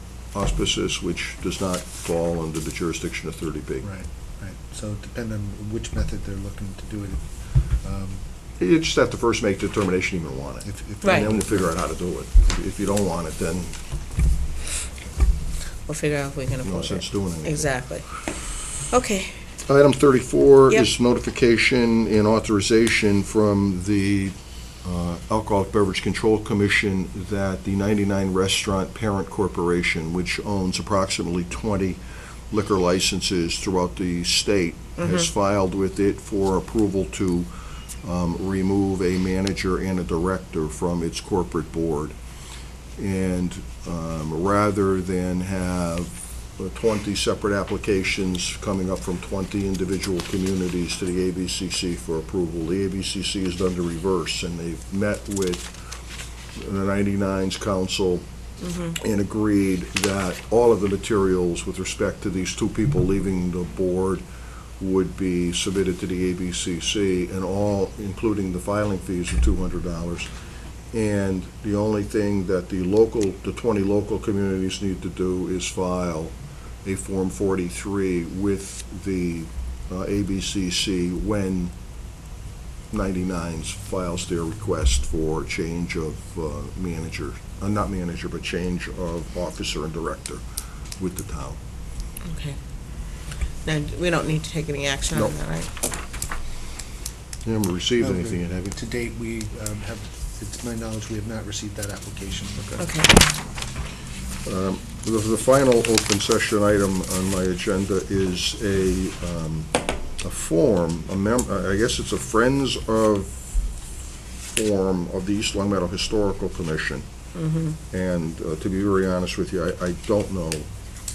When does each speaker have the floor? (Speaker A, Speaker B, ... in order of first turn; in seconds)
Speaker A: 0.3-3.9, 8.6-13.8, 16.6-17.7, 19.7-37.5, 38.0-42.2, 43.0-55.7, 56.5-58.2, 59.0-64.2, 64.8-70.3, 70.9-81.7, 82.9-90.4, 91.0-91.6, 97.4-98.7, 104.4-113.5, 114.5-117.0, 117.9-120.7
Speaker B: 3.8-8.2, 10.6-11.8, 98.0-102.9
Speaker C: 15.9-18.0, 18.9-19.3, 35.0-35.3, 58.6-58.9, 92.2-92.6, 93.6-95.7, 117.3-117.8